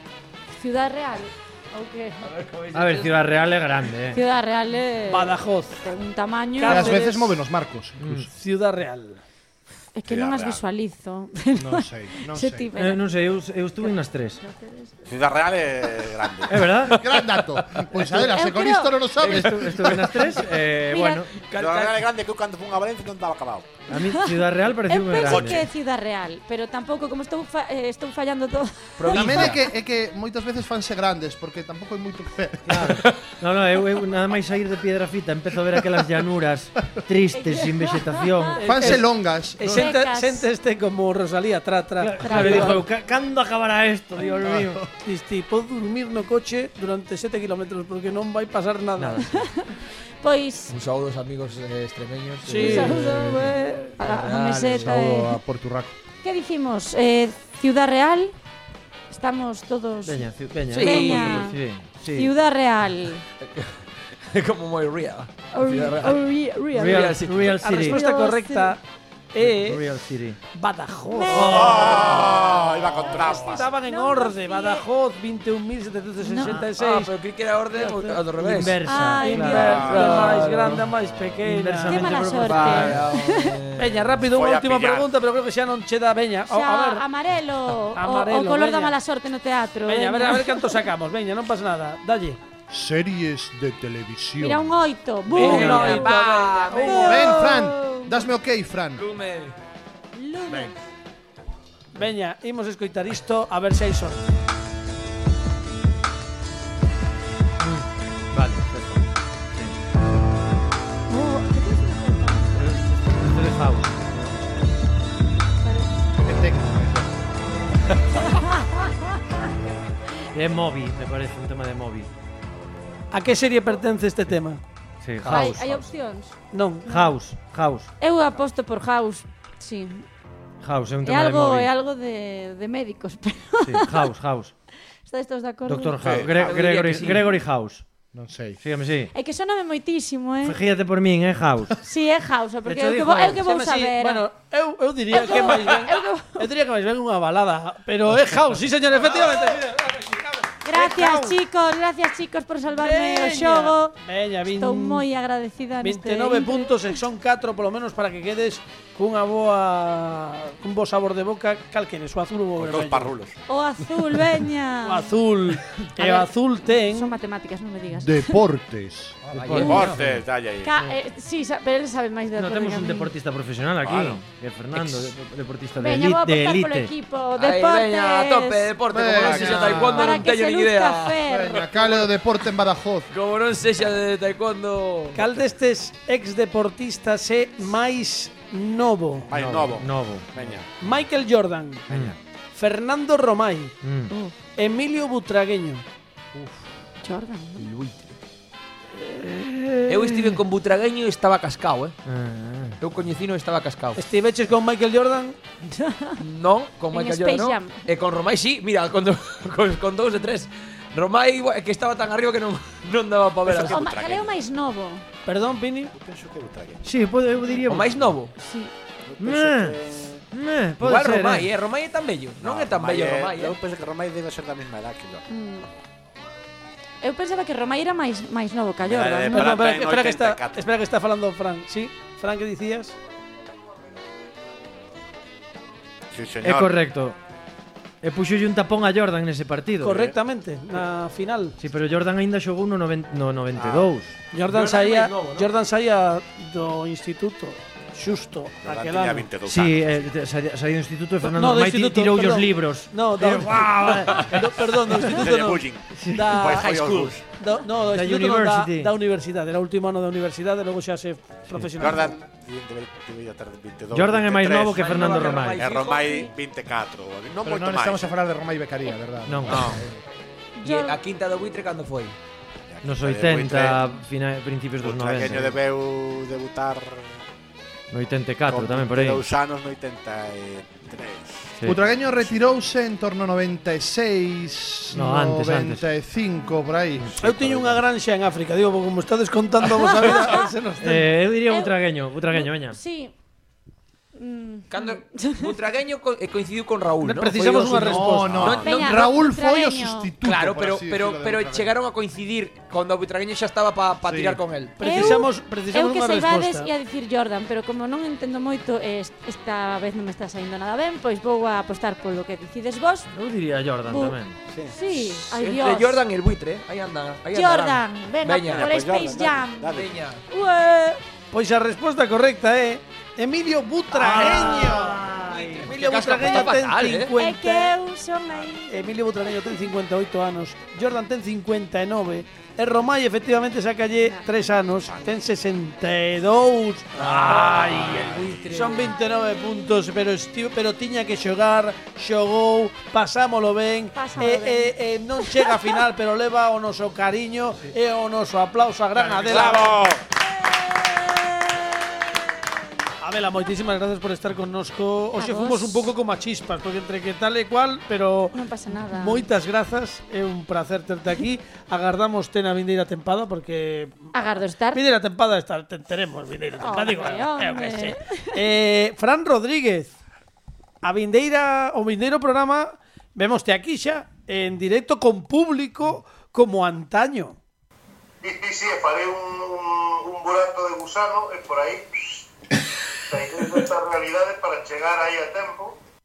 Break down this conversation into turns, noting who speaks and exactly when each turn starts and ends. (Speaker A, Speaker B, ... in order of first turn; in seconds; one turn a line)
Speaker A: 0.5-2.3
Speaker B: 2.2-3.3
Speaker C: 2.7-4.2
Speaker A: 4.1-7.0
Speaker D: 5.1-5.9
Speaker D: 6.6-7.4
Speaker E: 6.7-8.1
Speaker C: 8.0-8.3
Speaker D: 8.1-9.2
Speaker A: 9.9-13.1
Speaker F: 10.1-10.6
Speaker E: 11.6-12.7
Speaker C: 12.8-14.4
Speaker A: 13.8-14.9
Speaker F: 15.1-16.8
Speaker C: 16.5-17.0
Speaker E: 16.9-19.9
Speaker A: 18.1-19.1
Speaker B: 19.2-20.7
Speaker C: 19.2-21.3
Speaker A: 20.9-21.2
Speaker B: 21.4-22.1
Speaker F: 21.5-23.8
Speaker C: 23.9-25.7
Speaker A: 23.9-29.6
Speaker F: 25.2-25.6
Speaker B: 29.0-29.6
Speaker E: 29.1-33.0
Speaker C: 32.7-38.7
Speaker B: 32.9-33.3
Speaker A: 37.3-38.6
Speaker D: 38.6-42.8
Speaker E: 38.7-39.9
Speaker A: 39.7-40.5
Speaker C: 42.0-44.9
Speaker A: 42.2-42.8
Speaker E: 44.4-44.8
Speaker D: 45.0-49.3
Speaker C: 49.0-49.5
Speaker A: 49.2-50.8
Speaker B: 50.7-54.9
Speaker D: 52.5-53.0
Speaker A: 52.6-55.4
Speaker C: 52.7-53.4
Speaker E: 54.8-55.9
Speaker A: 56.2-58.4
Speaker A: 59.1-61.6
Speaker C: 60.0-62.3
Speaker B: 60.7-61.6
Speaker A: 62.1-63.2
Speaker B: 63.4-66.2
Speaker A: 65.5-67.2
Speaker C: 66.7-68.0
Speaker B: 66.8-67.7
Speaker D: 67.6-68.8
Speaker A: 67.8-68.8
Speaker D: 69.3-69.8
Speaker C: 69.4-70.4
Speaker D: 70.5-72.4
Speaker A: 71.1-74.9
Speaker C: 71.3-72.1
Speaker F: 71.4-73.7
Speaker D: 73.0-77.1
Speaker A: 76.2-76.6
Speaker B: 76.6-78.8
Speaker D: 77.8-78.2
Speaker C: 78.4-79.8
Speaker A: 78.8-80.3
Speaker D: 79.2-82.8
Speaker B: 79.8-80.8
Speaker C: 81.4-83.1
Speaker A: 81.9-83.6
Speaker B: 82.4-84.1
Speaker D: 83.8-87.0
Speaker F: 84.2-85.1
Speaker A: 86.5-90.8
Speaker D: 87.9-89.0
Speaker D: 89.9-92.4
Speaker E: 92.7-94.7
Speaker A: 94.4-98.2
Speaker D: 95.3-97.4
Speaker B: 95.3-97.2
Speaker E: 97.1-99.0
Speaker B: 99.0-99.5
Speaker A: 100.1-100.8
Speaker E: 100.5-100.7
Speaker D: 101.9-104.2
Speaker C: 107.6-109.8
Speaker A: 111.1-112.6
Speaker C: 112.5-114.1
Speaker A: 115.6-115.9
Speaker E: 116.2-117.2
Speaker C: 120.3-122.1
Speaker D: 123.1-124.6
Speaker C: 125.0-125.8
Speaker A: 125.2-126.3
Speaker D: 126.5-126.9
Speaker C: 126.9-127.9
Speaker A: 128.0-130.1
Speaker C: 130.6-131.7
Speaker A: 131.0-134.1
Speaker C: 133.6-134.5
Speaker A: 135.1-136.1
Speaker C: 135.7-137.8
Speaker F: 136.0-136.5
Speaker B: 136.2-137.4
Speaker E: 138.1-138.6
Speaker C: 138.6-139.1
Speaker A: 139.1-140.6
Speaker C: 140.4-141.8
Speaker A: 141.8-144.2
Speaker C: 142.7-143.4
Speaker D: 143.4-151.4
Speaker A: 145.1-146.5
Speaker A: 150.6-154.0
Speaker D: 152.8-155.1
Speaker A: 154.6-156.9
Speaker D: 155.8-163.1
Speaker F: 162.6-163.3
Speaker A: 163.5-165.1
Speaker D: 164.8-167.2
Speaker A: 166.0-168.4
Speaker E: 168.0-169.2
Speaker C: 169.3-169.9
Speaker B: 169.3-170.2
Speaker F: 169.5-170.7
Speaker A: 169.6-169.8
Speaker A: 170.6-173.1
Speaker C: 172.4-176.9
Speaker B: 173.8-174.2
Speaker B: 174.8-175.1
Speaker A: 175.8-178.7
Speaker B: 177.4-181.2
Speaker E: 178.9-180.3
Speaker A: 179.4-181.9
Speaker E: 181.2-183.1
Speaker B: 183.1-185.2
Speaker D: 185.1-189.3
Speaker F: 189.3-190.7
Speaker C: 189.3-190.3
Speaker D: 190.8-191.9
Speaker C: 191.9-192.2
Speaker D: 192.5-193.8
Speaker C: 193.8-194.1
Speaker D: 194.6-195.8
Speaker A: 197.0-197.7
Speaker B: 197.6-198.1
Speaker C: 199.0-200.4
Speaker B: 199.9-202.0
Speaker C: 202.1-202.8
Speaker B: 202.8-204.0
Speaker D: 204.0-205.4
Speaker A: 205.7-206.2
Speaker B: 206.2-213.9
Speaker A: 206.9-207.8
Speaker F: 213.4-214.3
Speaker A: 213.7-215.1
Speaker D: 215.3-215.9
Speaker F: 215.9-216.9
Speaker C: 216.8-217.9
Speaker B: 217.7-218.3
Speaker A: 218.4-218.7
Speaker F: 219.0-220.2
Speaker C: 219.2-219.8
Speaker C: 220.3-221.5
Speaker B: 220.8-223.6
Speaker F: 222.4-225.2
Speaker A: 225.3-225.7
Speaker A: 227.0-229.7
Speaker F: 228.8-230.7
Speaker D: 229.3-232.9
Speaker F: 236.1-236.8
Speaker C: 236.4-237.2
Speaker C: 238.0-240.1
Speaker D: 239.8-241.6
Speaker F: 239.9-240.1
Speaker C: 241.6-244.1
Speaker F: 243.6-243.9
Speaker D: 244.3-249.3
Speaker B: 244.5-245.5
Speaker F: 248.6-250.1
Speaker C: 249.4-254.6
Speaker D: 251.2-262.1
Speaker F: 254.9-257.2
Speaker C: 255.9-256.6
Speaker C: 257.9-258.9
Speaker F: 261.8-268.1
Speaker C: 263.9-265.7
Speaker B: 264.7-266.3
Speaker E: 267.4-270.0
Speaker C: 269.3-269.8
Speaker F: 269.5-269.9
Speaker A: 270.6-271.0
Speaker B: 270.6-272.2
Speaker F: 272.7-273.9
Speaker C: 272.8-275.6
Speaker F: 274.8-277.2
Speaker C: 277.9-279.2
Speaker F: 278.5-282.4
Speaker E: 281.7-287.8
Speaker C: 284.9-285.9
Speaker D: 287.2-291.1
Speaker A: 289.7-290.5
Speaker C: 290.8-292.8
Speaker A: 291.5-291.8
Speaker A: 292.3-293.1
Speaker A: 294.1-295.6
Speaker B: 294.7-299.0
Speaker D: 297.0-298.4
Speaker E: 297.7-301.7
Speaker F: 298.3-298.6
Speaker A: 298.5-300.1
Speaker B: 300.2-304.8
Speaker E: 304.0-304.4
Speaker D: 304.8-306.7
Speaker A: 304.8-313.1
Speaker C: 313.1-314.4
Speaker A: 313.9-316.1
Speaker F: 314.5-314.8
Speaker B: 314.9-318.7
Speaker A: 317.3-319.8
Speaker F: 318.5-320.1
Speaker B: 319.7-320.2
Speaker A: 320.3-321.0
Speaker D: 321.3-325.1
Speaker C: 323.9-325.7
Speaker B: 324.1-324.8
Speaker B: 325.4-327.1
Speaker D: 325.6-327.7
Speaker A: 327.2-328.9
Speaker D: 328.7-349.9
Speaker B: 337.0-339.0
Speaker F: 337.7-338.6
Speaker A: 338.8-339.6
Speaker A: 343.9-345.7
Speaker F: 349.2-350.0
Speaker A: 350.2-352.0
Speaker D: 353.0-364.1
Speaker A: 355.2-355.9
Speaker A: 358.3-359.3
Speaker A: 364.1-364.8
Speaker D: 364.7-369.9
Speaker A: 366.6-368.4
Speaker D: 370.8-377.4
Speaker G: 378.2-382.3
Speaker G: 383.1-385.8